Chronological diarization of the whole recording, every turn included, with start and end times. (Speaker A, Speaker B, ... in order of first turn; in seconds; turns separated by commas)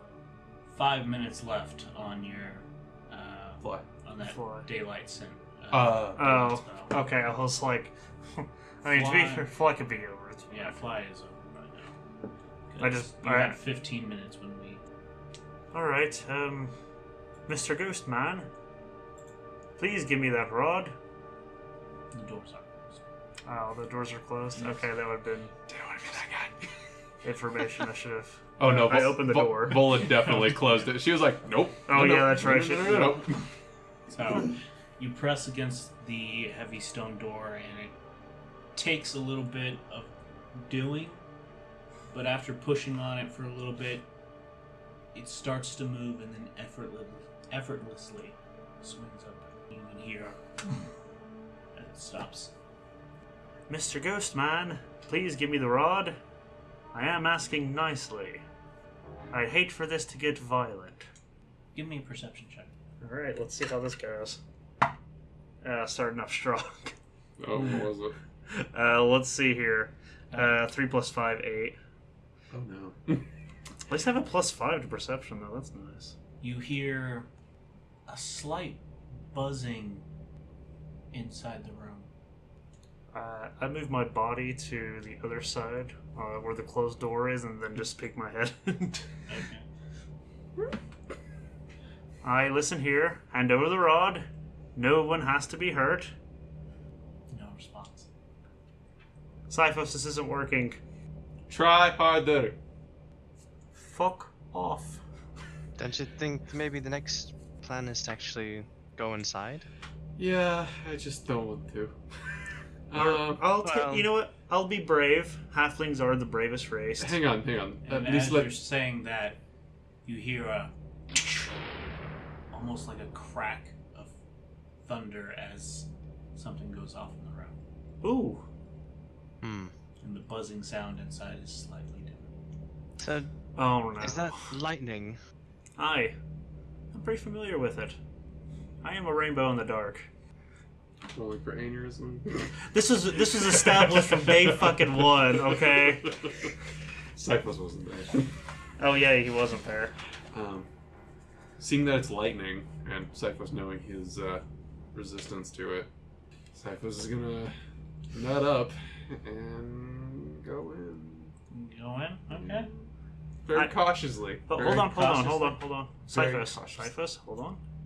Speaker A: 0.7-6.9, Speaker B: 4.2-4.7, Speaker C: 5.7-6.5, Speaker B: 6.2-10.8, Speaker A: 8.8-9.5, Speaker A: 10.5-11.9, Speaker A: 12.7-14.8, Speaker B: 12.8-13.6, Speaker B: 15.7-16.7, Speaker B: 17.5-18.5, Speaker B: 19.8-20.9, Speaker A: 22.1-23.0, Speaker B: 23.5-25.5, Speaker C: 25.7-26.7, Speaker B: 27.2-30.2, Speaker C: 28.6-33.5, Speaker B: 31.9-33.2, Speaker A: 34.1-37.9, Speaker A: 38.8-41.2, Speaker A: 42.1-44.1, Speaker A: 45.1-50.4, Speaker A: 51.8-52.5, Speaker B: 53.7-56.2, Speaker B: 56.9-58.4, Speaker B: 59.3-61.1, Speaker A: 61.8-62.7, Speaker B: 63.0-64.4, Speaker B: 65.6-66.9, Speaker C: 67.4-68.2, Speaker B: 68.5-71.8, Speaker A: 70.3-70.6, Speaker C: 72.5-73.3, Speaker B: 73.9-76.2, Speaker A: 76.4-77.3, Speaker A: 78.1-78.8, Speaker A: 79.3-80.0, Speaker A: 81.1-82.1, Speaker B: 83.1-89.0, Speaker A: 89.3-89.7, Speaker B: 92.2-96.1, Speaker A: 97.3-98.1, Speaker B: 99.5-100.8, Speaker C: 101.5-102.6, Speaker B: 103.8-105.0, Speaker D: 105.8-109.7, Speaker C: 110.2-112.0, Speaker C: 112.9-113.5, Speaker B: 113.0-117.2, Speaker D: 113.6-114.1, Speaker C: 117.0-118.5, Speaker A: 117.8-119.4, Speaker A: 120.0-120.7, Speaker A: 122.5-124.1, Speaker A: 124.8-127.5, Speaker B: 128.0-128.4, Speaker D: 129.4-129.7, Speaker A: 130.0-132.3, Speaker D: 133.0-133.3, Speaker B: 133.6-134.3, Speaker D: 134.0-135.2, Speaker B: 135.8-136.2, Speaker B: 136.9-138.0, Speaker B: 138.8-140.1, Speaker C: 141.1-142.5, Speaker B: 142.7-146.2, Speaker C: 143.3-146.5, Speaker C: 147.2-148.3, Speaker B: 148.8-149.9, Speaker C: 150.3-150.7, Speaker C: 151.6-155.9, Speaker C: 156.5-157.6, Speaker C: 158.1-161.3, Speaker A: 161.5-162.7, Speaker C: 162.3-162.9, Speaker C: 163.4-165.3, Speaker B: 164.5-167.6, Speaker A: 165.0-165.6, Speaker C: 166.1-166.9